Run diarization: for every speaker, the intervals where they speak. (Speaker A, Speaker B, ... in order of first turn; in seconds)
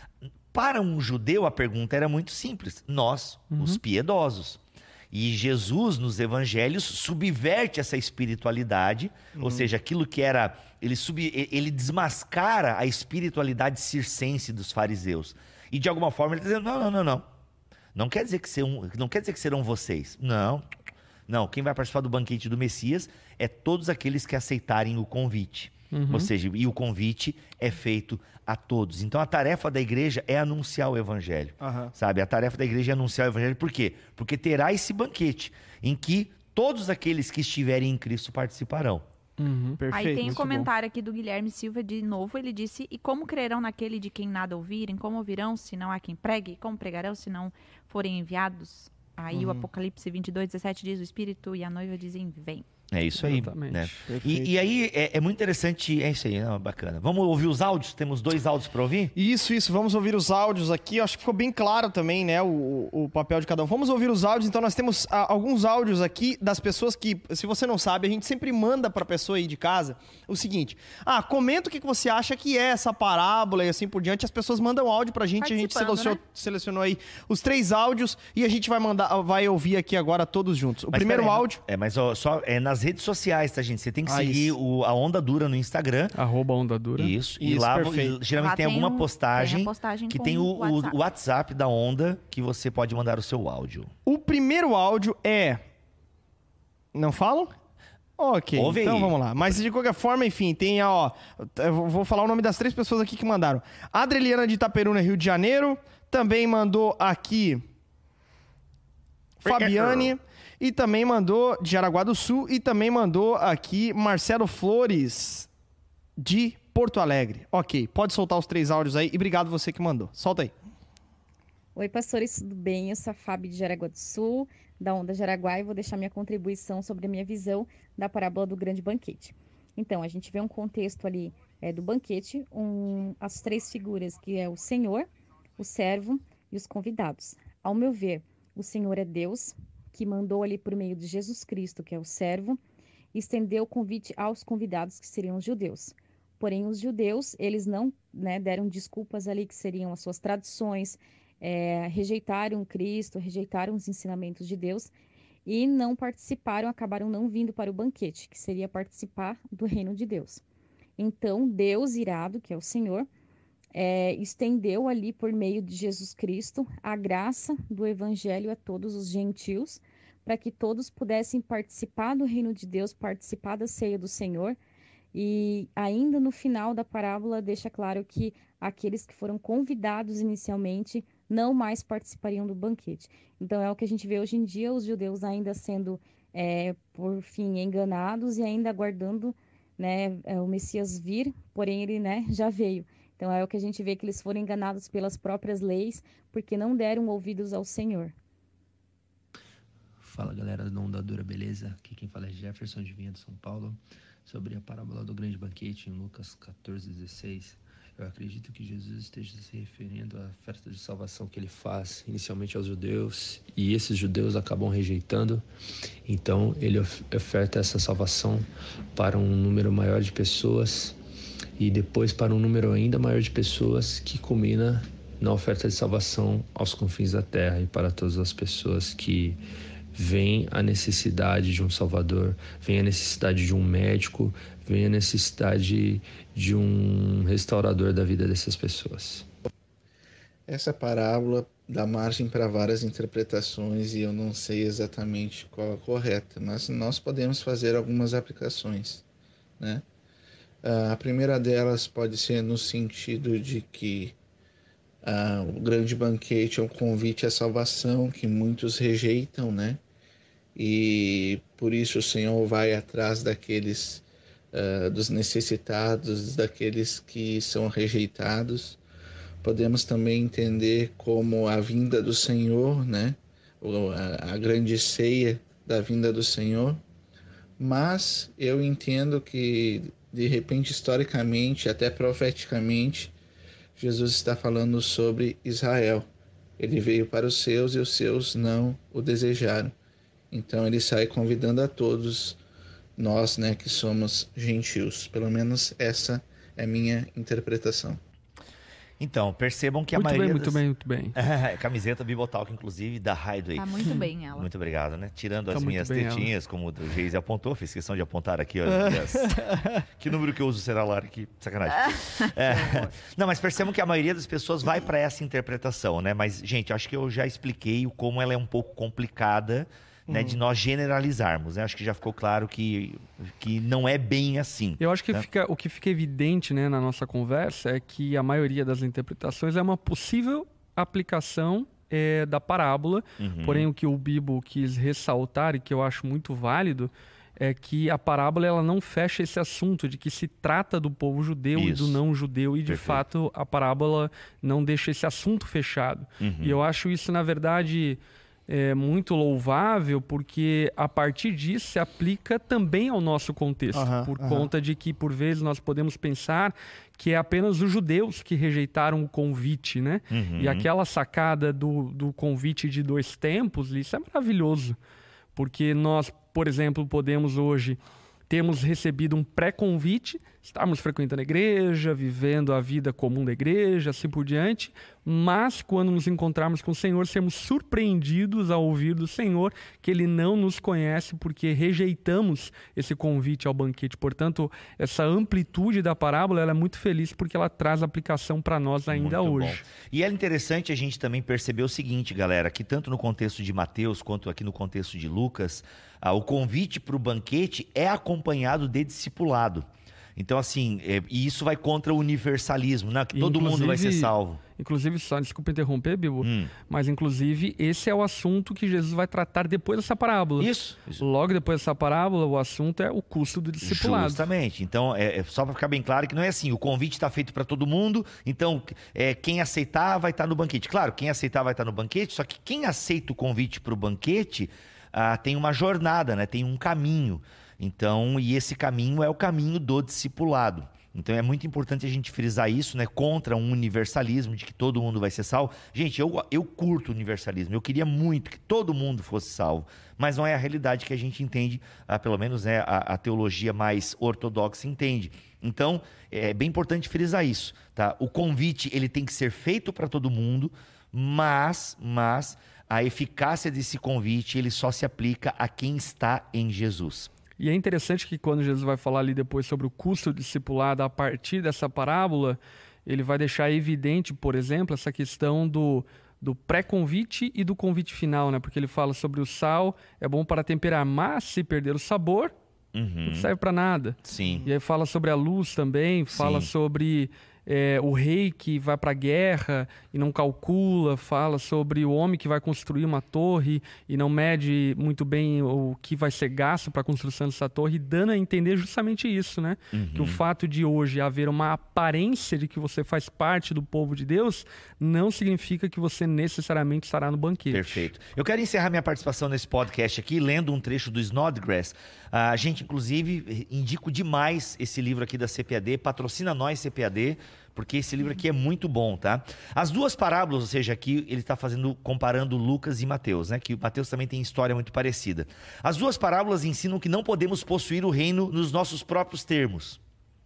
Speaker A: 0.5-4.6, 5.1-17.2, 17.9-20.6, 21.3-39.1, 52.9-59.1, 80.9-86.1, 87.0-93.9, 98.5-99.2, 109.4-110.2, 299.0-300.6, 301.1-325.2, 333.2-333.7, 341.6-342.0, 342.7-343.0, 346.2-346.6, 360.1-360.7, 388.9-404.4, 406.2-406.5, 410.4-411.0, 413.6-457.1, 472.7-473.3, 474.0-474.5, 476.1-476.5, 489.7-490.2, 497.5-519.8
Speaker B: 3.5-3.8, 25.9-26.3, 39.4-40.7, 53.2-54.0, 86.1-87.1, 299.9-301.2, 305.5-306.3, 324.8-364.8, 365.4-389.6, 403.1-414.3, 457.4-472.3, 473.1-497.9
Speaker C: 9.4-9.7, 31.6-31.9, 39.8-40.4, 49.3-49.7, 54.1-54.5, 59.1-81.6, 84.1-84.5, 87.4-88.2, 94.1-95.6, 96.9-97.5, 98.2-107.6, 109.4-115.5, 116.2-120.5, 308.9-309.5, 312.5-312.9, 320.1-320.4, 353.7-354.5
Speaker D: 39.9-52.7, 75.4-76.2, 88.4-91.0, 303.6-304.5, 311.9-312.3
Speaker E: 121.8-142.6, 143.1-154.9, 155.5-160.4, 161.0-163.1, 163.7-174.6, 175.1-198.1
Speaker F: 200.0-215.4, 216.1-221.0, 221.6-229.4, 229.9-239.3
Speaker G: 240.5-249.0, 250.6-254.2, 255.0-259.8, 260.6-268.8, 269.4-276.8, 277.6-283.1, 283.8-286.1, 286.6-289.8, 290.3-292.4, 293.0-298.0